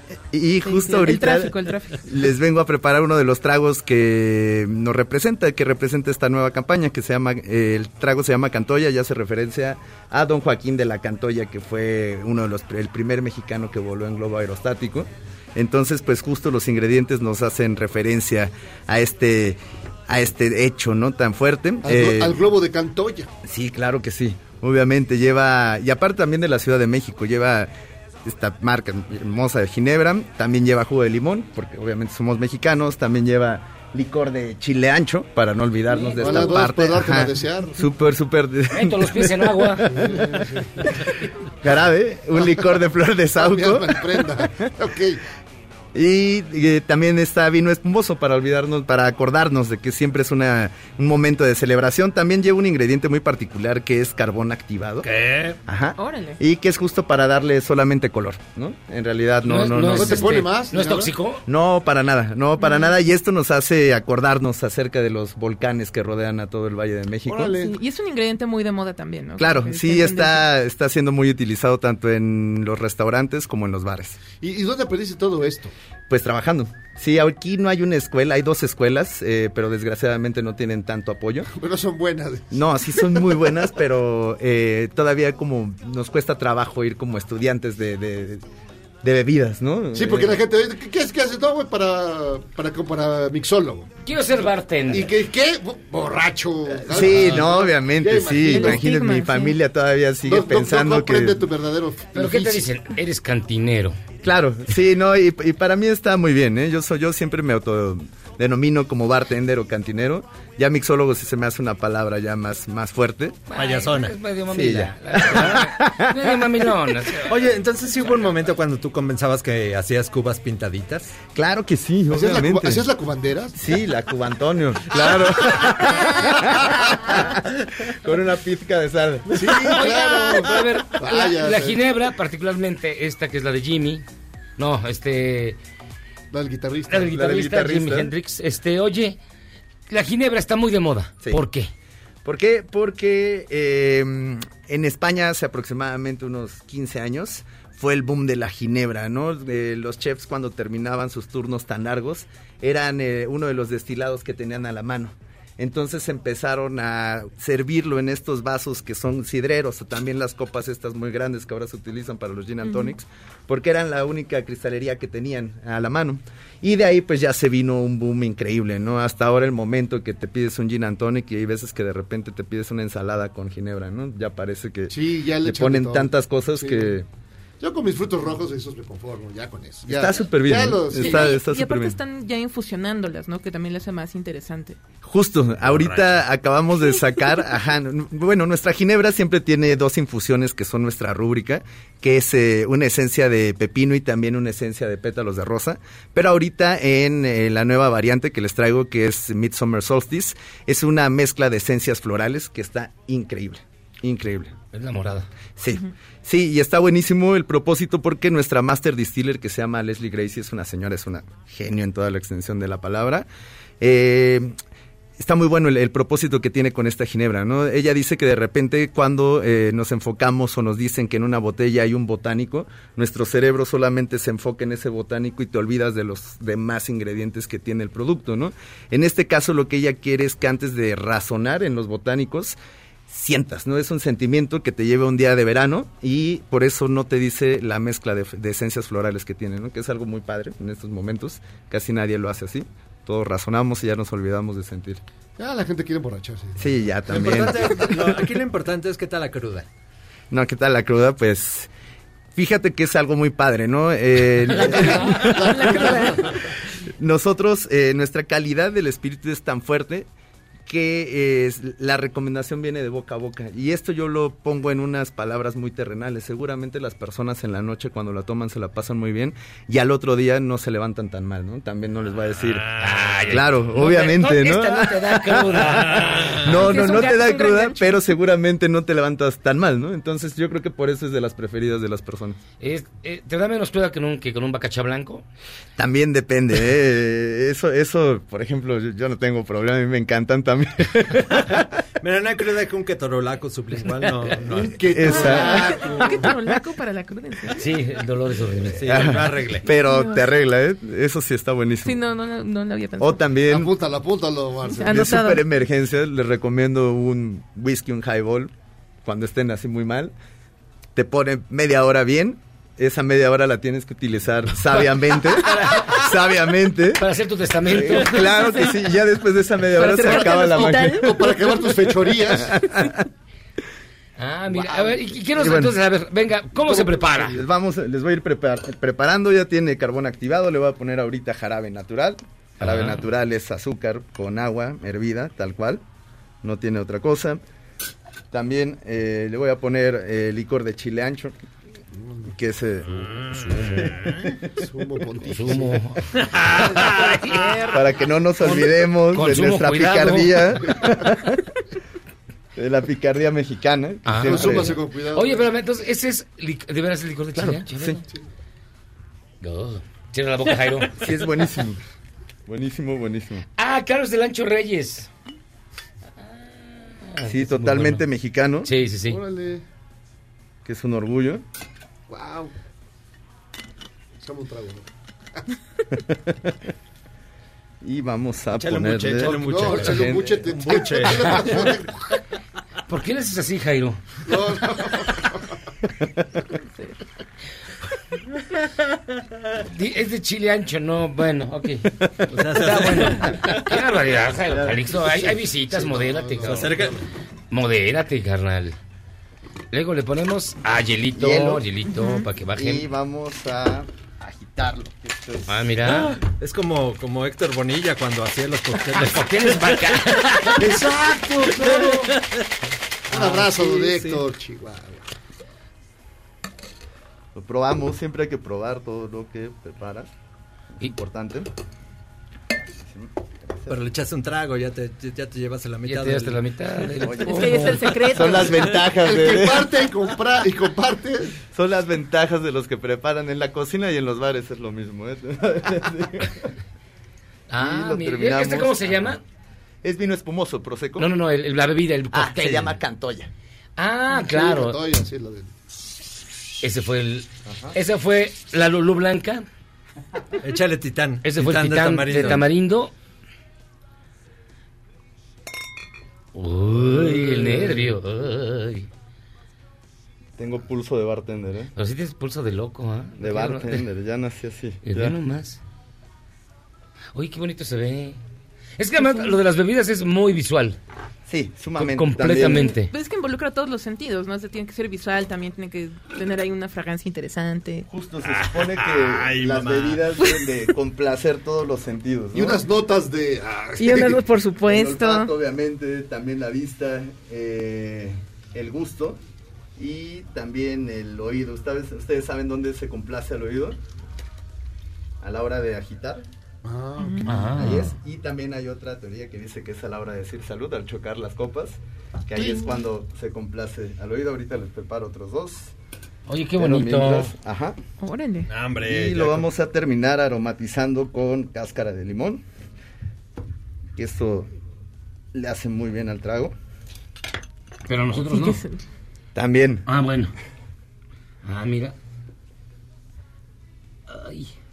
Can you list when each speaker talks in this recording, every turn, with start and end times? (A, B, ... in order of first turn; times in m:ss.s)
0:00.3-0:22.4 A
0:00.6-0:02.2 B
0:21.8-0:23.3 C
0:23.4-0:27.7 A
0:28.2-0:39.3 A
0:35.9-0:36.6 D
0:36.1-0:37.8 C
0:38.7-0:39.9 D
0:39.8-0:40.2 A
0:39.8-0:41.0 C
0:41.6-0:44.3 A
0:43.4-0:45.2 C
0:45.9-0:55.0 A
0:55.0-0:55.6 E
0:55.6-1:00.4 A
0:56.0-0:56.4 B
0:59.4-1:01.4 D
0:59.9-1:01.1 C
1:01.4-1:07.6 A
1:02.6-1:02.9 B
1:07.2-1:07.8 C
1:07.6-1:10.5 B
1:09.4-1:14.2 A
1:14.4-1:15.7 C
1:16.1-1:21.5 A
1:21.5-1:23.1 C
1:22.5-1:28.4 A
1:29.0-1:30.4 A
1:29.9-1:33.9 C
1:34.0-1:35.1 D
1:34.9-1:38.9 C
1:36.8-1:41.4 A
1:38.4-1:39.6 B
1:40.2-1:42.7 C
1:42.1-1:44.0 D
1:44.2-1:53.4 A
1:53.5-1:57.4 D
1:53.5-1:54.2 E
1:54.5-1:56.2 A
1:55.3-1:55.7 E
1:57.2-2:01.1 E
2:01.3-2:02.8 A
2:02.1-2:03.6 C
2:03.6-2:09.7 A
2:05.0-2:07.1 C
2:09.3-2:11.8 C
2:09.4-2:10.4 E
2:09.8-2:14.0 D
2:14.6-2:15.6 D
2:16.3-2:17.1 C
2:16.9-2:19.2 D
2:17.1-2:18.1 A
2:19.9-2:21.7 D
2:22.2-2:57.1 A
2:42.6-2:43.0 B
2:54.9-2:57.0 C
2:57.6-3:01.4 C
2:59.8-3:02.0 A
3:01.0-3:04.8 B
3:05.0-3:24.5 A
3:05.6-3:06.3 E
3:24.7-3:25.3 D
3:25.6-3:33.2 A
3:33.8-3:34.5 A
3:35.2-3:52.6 A
3:53.1-4:05.0 A
4:05.4-4:07.8 C
4:06.6-4:08.1 A
4:07.1-4:09.6 E
4:10.3-4:11.7 A
4:12.3-4:16.1 A
4:14.6-4:16.3 B
4:14.6-4:16.4 C
4:17.0-4:20.1 A
4:20.7-4:32.7 A
4:32.4-4:33.3 E
4:32.8-4:36.9 D
4:33.2-4:42.4 A
4:36.0-4:36.3 E
4:36.5-4:38.0 B
4:42.6-4:45.2 D
4:45.8-4:51.6 A
4:52.0-4:55.5 E
4:54.5-4:56.4 C
4:54.9-4:55.7 A
4:55.1-4:57.6 B
4:57.6-4:59.0 D
4:58.7-4:59.7 E
4:58.8-5:02.0 A
4:59.7-5:00.3 B
5:01.8-5:03.2 B
5:03.0-5:03.7 A
5:03.5-5:05.1 C
5:04.8-5:05.4 B
5:04.8-5:08.5 A
5:09.0-5:10.1 A
5:10.9-5:17.0 A
5:15.4-5:16.0 D
5:17.0-5:18.2 D
5:17.7-5:21.2 A
5:18.3-5:18.7 B
5:19.7-5:21.5 B
5:19.8-5:22.7 C
5:22.3-5:23.0 A
5:24.2-5:27.4 D
5:24.5-5:25.0 C
5:25.4-5:25.7 A
5:26.6-5:27.4 C
5:27.3-5:35.8 A
5:32.6-5:33.0 D
5:36.4-5:37.4 A
5:38.3-5:41.3 A
5:41.9-5:42.3 C
5:42.3-5:44.1 A
5:43.4-5:43.9 D
5:44.6-5:45.8 C
5:45.3-5:46.0 D
5:46.3-5:46.8 E
5:46.8-5:47.7 D
5:47.7-5:51.4 A
5:48.4-5:50.4 D
5:52.6-5:54.8 A
5:54.0-5:58.0 D
5:54.2-5:55.5 C
5:57.4-5:58.0 A
5:59.4-6:00.9 D
6:01.0-6:01.8 A
6:02.5-6:03.4 A
6:03.6-6:05.1 D
6:06.2-6:08.0 D
6:07.2-6:08.7 A
6:08.6-6:09.2 D
6:09.1-6:09.6 C
6:10.6-6:11.4 A
6:12.1-6:12.5 C
6:14.2-6:14.9 C
6:15.9-6:16.5 A
6:17.8-6:20.4 A
6:18.5-6:21.7 E
6:19.3-6:22.0 C
6:22.9-6:24.0 D
6:24.2-6:25.4 C
6:29.7-6:31.9 D
6:32.3-6:33.6 E
6:32.5-6:36.7 D
6:34.5-6:34.8 A
6:35.1-6:37.0 C
6:36.4-6:37.0 E
6:37.5-6:38.8 D
6:39.7-6:42.9 D
6:41.2-6:41.6 A
6:41.9-6:42.2 B
6:42.5-6:45.6 A
6:45.5-6:46.1 D
6:45.8-6:52.4 E
6:49.0-6:52.0 D
6:51.6-6:52.0 C
6:53.1-6:54.2 E
6:53.1-6:55.0 C
6:57.3-7:00.1 A
7:00.8-7:01.5 A
7:02.9-7:03.7 A
7:03.7-7:06.4 E
7:05.9-7:07.8 D
7:07.0-7:09.8 A
7:07.2-7:08.8 B
7:08.8-7:11.4 C
7:11.5-7:16.5 A
7:17.5-7:19.2 D
7:17.6-7:19.2 A
7:19.8-7:21.1 A
7:21.0-7:22.8 D
7:22.1-7:23.3 A
7:23.8-7:24.8 D
7:24.1-7:25.5 C
7:26.6-7:29.4 D
7:27.4-7:27.8 A
7:30.4-7:32.4 E
7:31.2-7:32.9 D
7:36.3-7:38.9 D
7:36.9-7:37.9 A
7:40.4-7:41.7 A
7:41.8-7:43.8 D
7:43.2-7:45.2 A
7:44.8-7:45.6 D
7:47.1-7:48.2 D
7:48.8-7:50.8 D
7:51.3-7:52.7 A
7:51.8-7:52.9 D
7:52.6-7:57.8 B
7:57.9-8:02.6 A
7:58.2-8:00.2 E
8:02.3-8:04.2 C
8:03.8-8:05.3 B
8:04.6-8:09.2 A
8:09.8-8:13.8 A
8:15.2-8:16.2 A
8:16.6-8:17.6 C
8:17.0-8:17.3 B
8:17.2-8:17.9 D
8:17.5-8:25.7 A
8:26.3-8:27.3 D
8:26.6-8:27.8 A
8:28.0-8:28.5 B
8:28.5-8:29.5 E
8:28.8-8:32.4 A
8:34.0-8:34.5 A
8:35.3-8:36.5 A
8:37.9-8:38.6 D
8:38.2-8:38.8 B
8:39.3-8:39.8 A
8:39.8-8:40.3 D
8:41.4-8:41.9 D
8:44.1-8:44.5 D